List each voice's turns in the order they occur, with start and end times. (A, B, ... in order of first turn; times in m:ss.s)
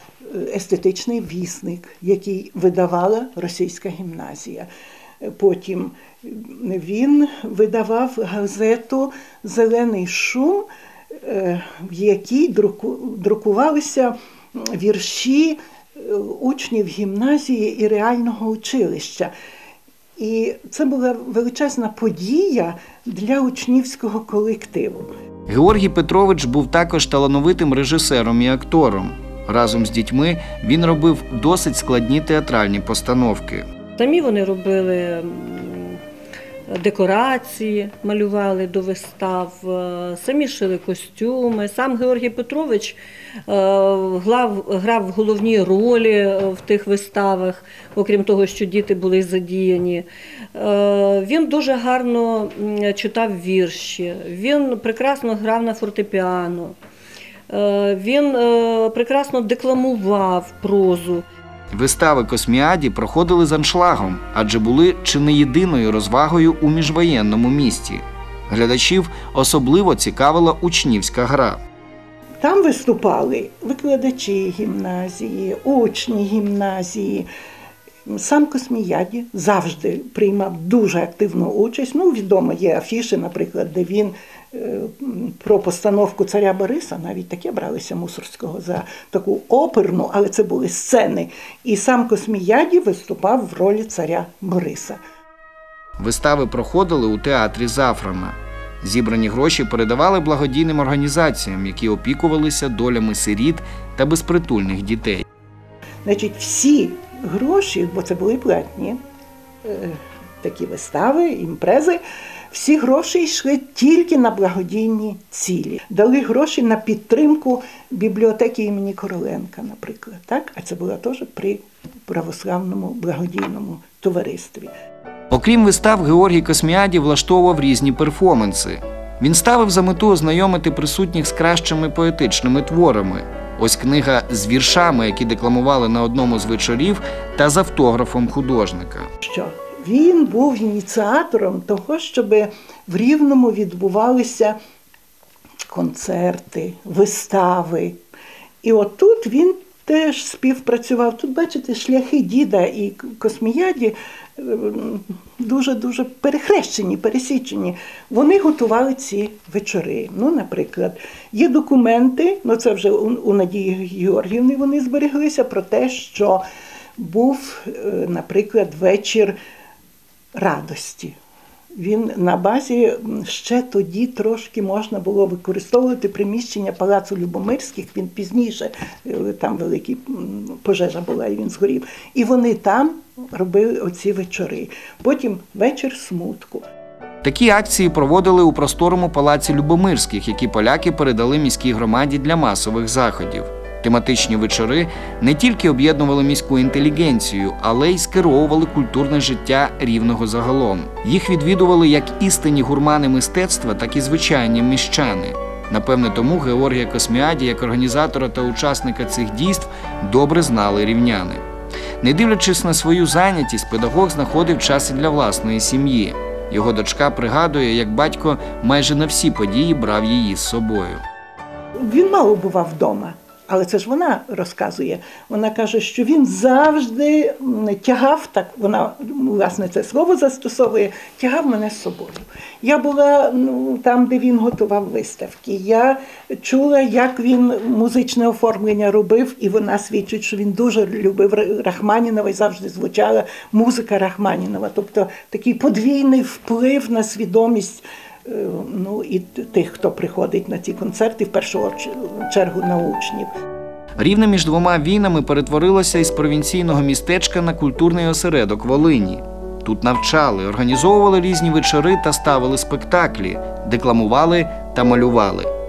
0:00.2-0:04.7 A
0:05.2-0:10.7 A
0:11.2-0:19.3 A
0:20.2-0:25.1 A
0:25.5-0:33.6 B
0:34.0-0:36.0 C
0:36.7-0:56.8 C
0:57.5-1:01.3 C
1:01.7-1:11.6 B
1:12.4-1:17.3 A
1:18.1-1:35.0 A
1:36.0-1:45.2 B
1:46.0-1:49.0 A
1:49.6-1:52.0 A
1:52.5-2:04.7 A
2:05.3-2:19.1 B
2:19.2-2:24.6 A
2:25.7-2:28.0 A
2:28.6-2:46.4 A
2:47.0-2:49.4 A
2:50.4-2:51.2 A
2:51.8-3:06.6 A
3:07.2-3:31.4 B
3:32.0-3:41.0 B
3:41.8-4:13.3 A
4:14.0-4:25.5 B